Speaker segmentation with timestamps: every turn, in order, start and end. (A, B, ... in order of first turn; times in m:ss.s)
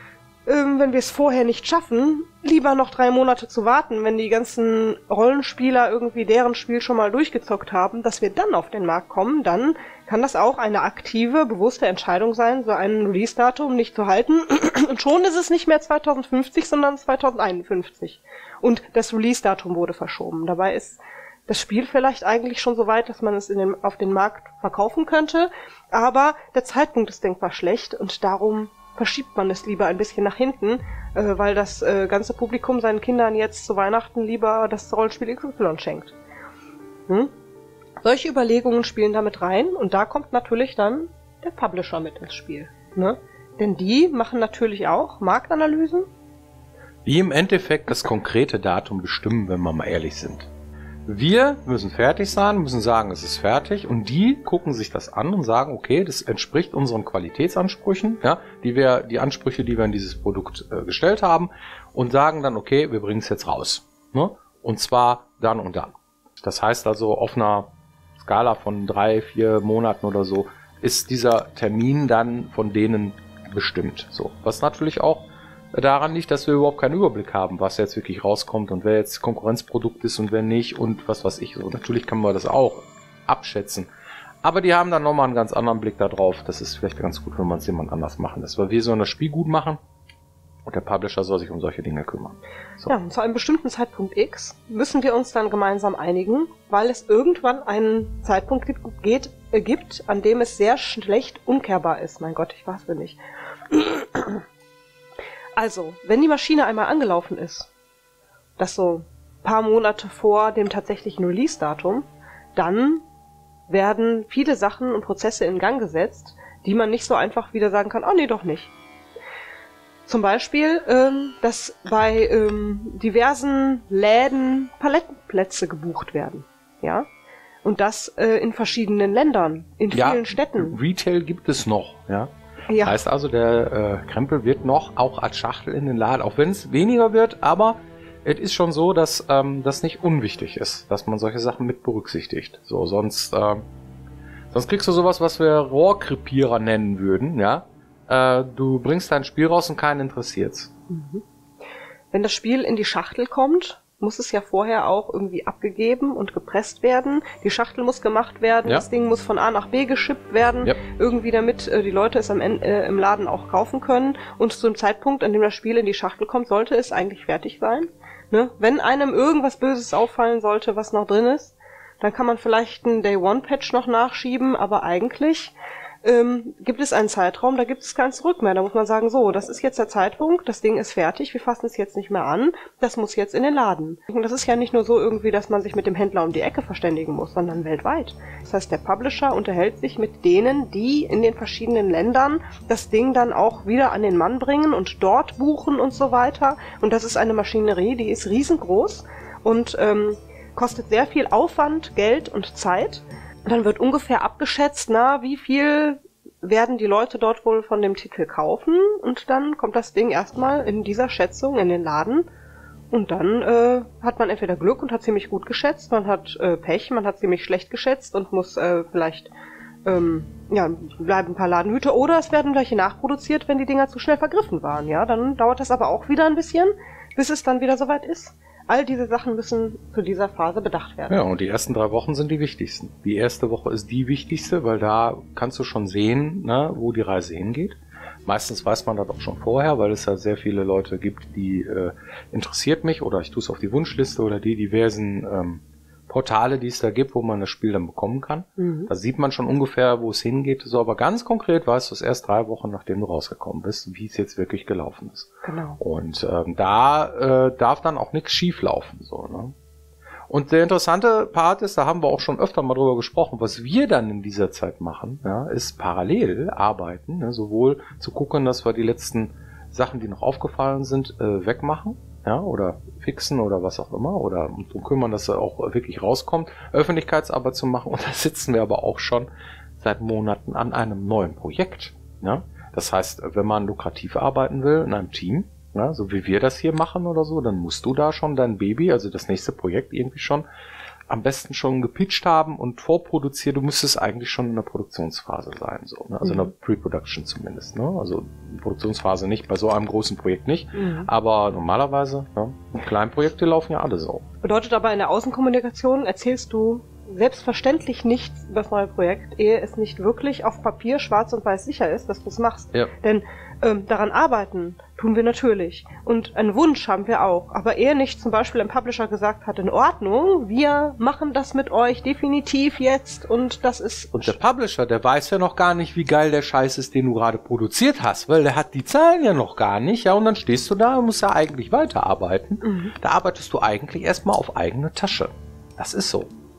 0:00.4-0:36.2 A
0:38.0-0:46.1 A
0:47.0-0:50.5 B
0:51.1-1:23.9 B
1:24.4-1:29.8 B
1:30.7-1:32.9 B
1:32.9-1:43.2 A
1:43.7-1:44.4 A
1:45.6-1:47.7 A
1:48.6-1:53.1 A
1:53.7-1:58.7 A
2:00.1-2:07.1 A
2:07.6-2:10.8 A
2:09.9-2:23.6 B
2:12.7-2:13.0 A
2:24.5-2:30.7 B
2:30.9-2:31.2 A
2:32.1-3:32.3 A
3:32.9-3:39.3 A
3:39.8-3:51.2 A
3:51.1-4:19.5 B
4:08.6-4:08.9 A
4:15.4-4:15.8 A
4:20.3-4:50.5 B
4:51.1-5:04.2 B
4:56.2-4:56.5 A
5:00.8-5:01.1 A
5:04.4-5:24.4 A
5:24.2-5:36.3 B
5:32.6-5:32.9 A